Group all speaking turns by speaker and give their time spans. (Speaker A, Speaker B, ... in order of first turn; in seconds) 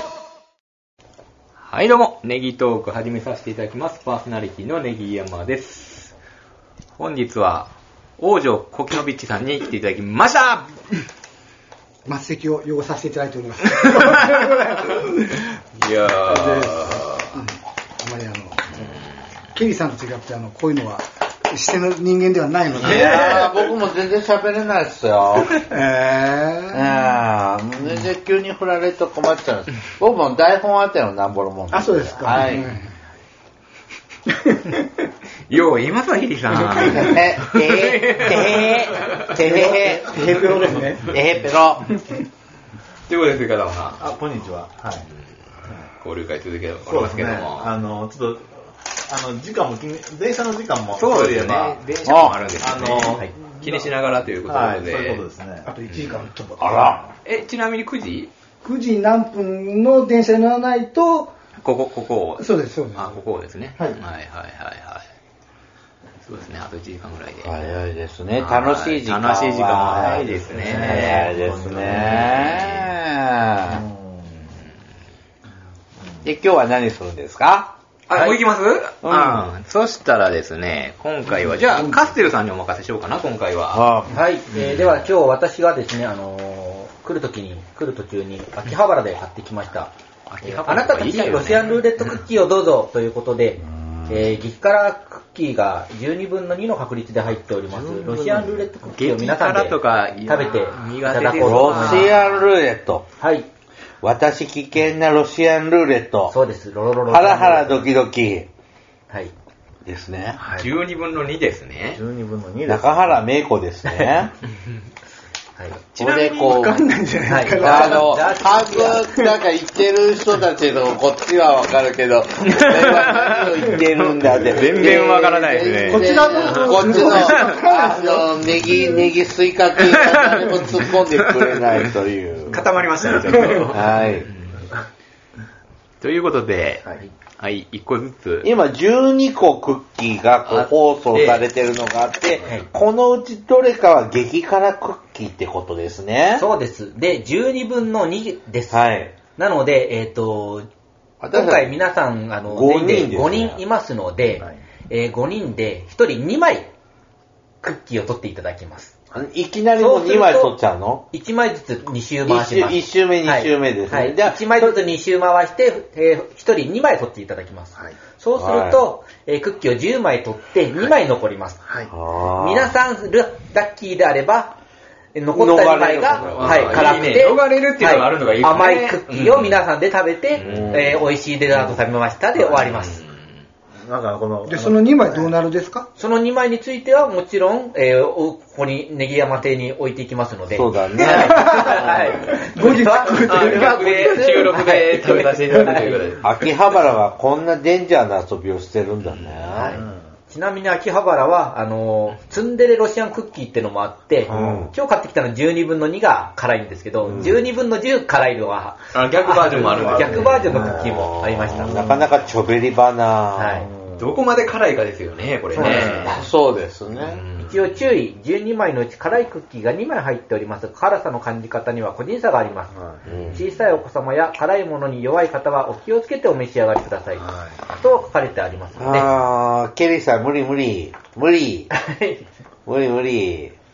Speaker A: 1.6-6.1, 7.0-10.8, 14.0-14.4, 15.7-17.4, 35.5-39.5, 43.1-44.0, 46.0-47.8, 50.9-55.2, 55.9-56.3, 57.2-58.3, 61.6-65.0, 66.2-67.5, 68.4-73.0, 78.1-83.9, 90.3-91.8, 98.9-102.2, 110.6-112.0, 122.4-127.6, 129.8-131.9, 132.5-134.6, 136.0-138.5, 140.5-141.4, 176.2-179.6, 180.3-181.0, 182.3-183.2, 193.2-196.3, 208.9-210.6, 214.0-216.3, 217.0-217.8, 223.1-223.4
Speaker B: 12.0-15.4, 16.3-18.9, 19.5-23.4, 25.6-26.8, 31.7-32.9, 39.4-41.1, 55.6-56.7, 58.6-61.3, 62.4-63.1, 116.0-118.3, 118.9-119.4, 125.9-129.1, 184.4-185.9, 191.1-194.4
Speaker C: 22.7-25.6, 26.7-32.7, 36.8-40.2, 41.0-41.8, 52.0-52.4, 56.6-57.0, 67.4-73.8, 76.2-77.7, 79.0-79.5, 83.7-84.2, 101.4-103.0, 104.0-106.3, 107.1-108.5, 109.8-110.4, 112.6-114.3, 116.0-116.8, 117.6-132.7, 133.6-134.3, 138.4-146.4, 148.7-149.1, 151.2-151.7, 152.5-153.6, 159.1-161.0, 162.2-164.8, 168.3-168.8, 171.9-172.7, 175.3-176.9, 180.4-181.8, 190.5-191.9, 196.2-199.8, 204.3-204.7, 207.0-207.4, 210.5-213.6, 215.5-217.2, 223.0-223.4, 228.8-231.7, 232.7-233.5
Speaker D: 44.0-45.1, 46.8-55.7, 56.6-57.1, 70.0-72.4, 73.7-74.5, 97.7-98.6, 110.4-110.7, 111.9-113.2, 171.7-171.9, 183.8-185.3, 199.7-200.0, 204.3-204.7, 209.7-211.0, 211.5-212.1, 213.7-214.1, 227.2-227.6
Speaker E: 78.1-78.4, 84.1-89.9, 90.4-102.2, 103.2-103.5, 106.3-107.9, 113.9-114.2, 115.5-115.8, 117.3-119.0, 146.3-150.7, 151.3-156.7, 157.6-158.9, 159.8-160.6, 161.1-171.6, 172.4-174.6, 175.1-183.0, 185.9-196.0, 199.5-211.8, 213.3-213.7, 215.5-216.1, 217.4-222.8, 223.3-229.1, 231.7-232.2